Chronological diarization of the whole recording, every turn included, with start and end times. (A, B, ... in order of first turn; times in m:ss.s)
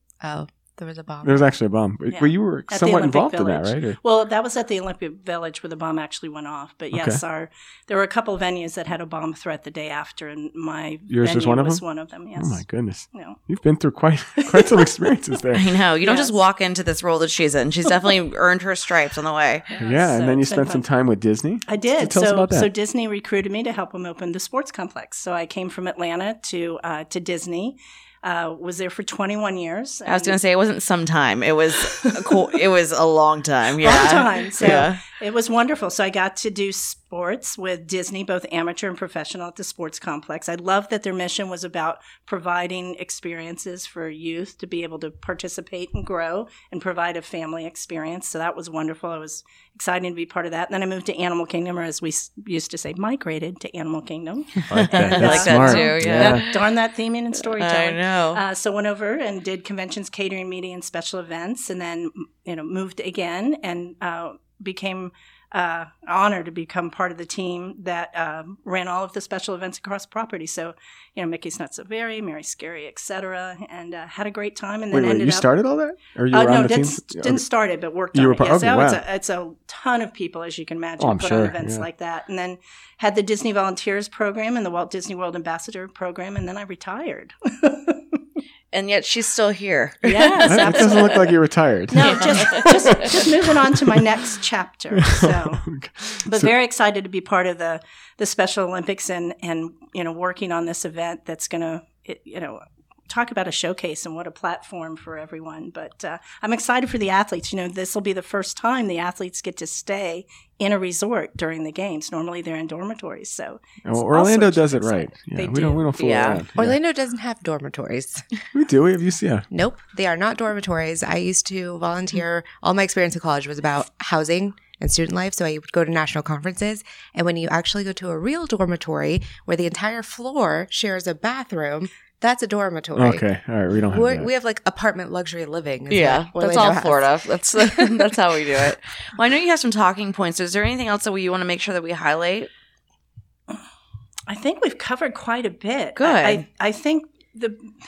0:00.2-0:01.5 A
0:01.2-0:04.0 B
0:02.1-0:13.4 C
0:06.9-0:07.2 B
0:11.1-0:11.8 B
0:12.4-0:15.8 B
0:14.4-0:14.9 C
0:15.5-0:19.7 D
0:16.0-0:16.3 C
0:19.7-0:20.8 C
0:19.8-0:22.7 B
0:21.7-0:30.4 C
0:30.1-0:35.0 D
0:31.9-0:32.4 C
0:33.8-1:15.5 C
0:54.7-0:56.4 B
0:54.7-0:56.7 D
0:57.5-0:58.4 D
1:14.9-1:17.4 B
1:16.3-1:28.0 C
1:18.1-1:19.0 B
1:21.0-1:21.9 B
1:28.7-1:31.0 D
1:30.0-1:31.3 C
1:30.4-1:34.0 B
1:31.9-1:35.6 C
1:32.0-1:33.0 D
1:35.0-1:36.5 B
1:36.2-1:56.0 C
1:53.8-1:56.8 B
1:56.0-1:56.4 D
1:56.6-1:58.3 A
1:58.5-1:59.5 B
1:59.5-2:13.3 A
2:13.0-2:14.3 B
2:13.9-2:18.1 A
2:15.9-2:22.5 D
2:24.3-2:27.7 C
2:26.0-2:26.4 D